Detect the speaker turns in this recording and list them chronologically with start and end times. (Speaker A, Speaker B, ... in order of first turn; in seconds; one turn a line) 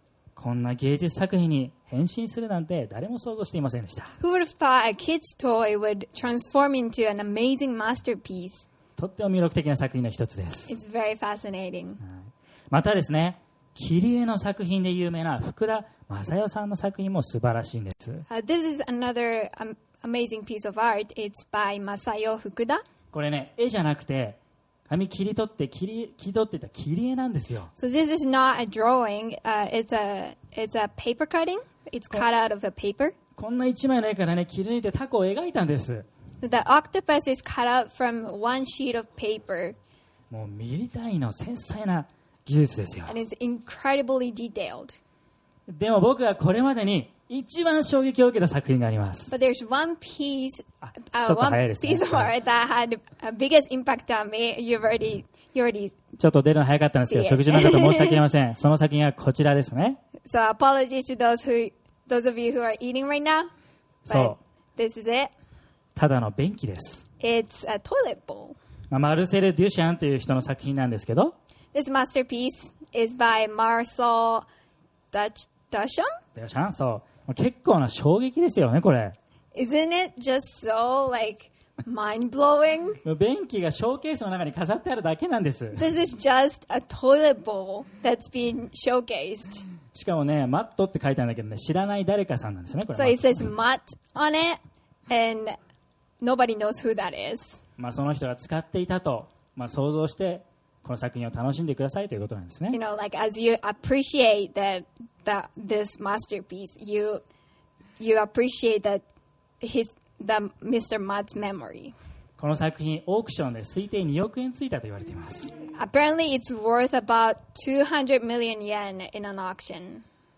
Speaker A: 0.3-4.1
Speaker B: 4.2-8.7
Speaker A: 9.0-10.7
Speaker B: 10.7-12.0
Speaker A: 12.0-18.2
Speaker B: 18.3-22.8
Speaker A: 23.1-27.7
Speaker B: 27.8-33.1
Speaker A: 33.4-36.0
Speaker B: 36.4-39.8
Speaker A: 40.3-43.1
Speaker B: 43.1-45.0
Speaker A: 45.7-49.3
Speaker B: 49.3-56.0
Speaker A: 51.2-52.3
Speaker A: 56.2-60.0
Speaker B: 57.1-58.2
Speaker B: 60.2-63.5
Speaker A: 64.0-64.4
Speaker B: 64.1-65.3
Speaker A: 66.0-67.0
Speaker B: 67.2-68.6
Speaker A: 68.9-71.3
Speaker B: 71.7-74.5
Speaker B: 75.1-76.1
Speaker A: 76.3-79.2
Speaker B: 79.5-83.0
Speaker A: 83.0-85.8
Speaker B: 85.8-89.7
Speaker A: 89.9-93.5
Speaker B: 92.9-95.5
Speaker B: 96.2-97.6
Speaker A: 97.8-102.8
Speaker B: 102.7-107.2
Speaker B: 108.0-109.0
Speaker B: 109.6-111.9
Speaker A: 112.4-115.5
Speaker B: 115.7-120.0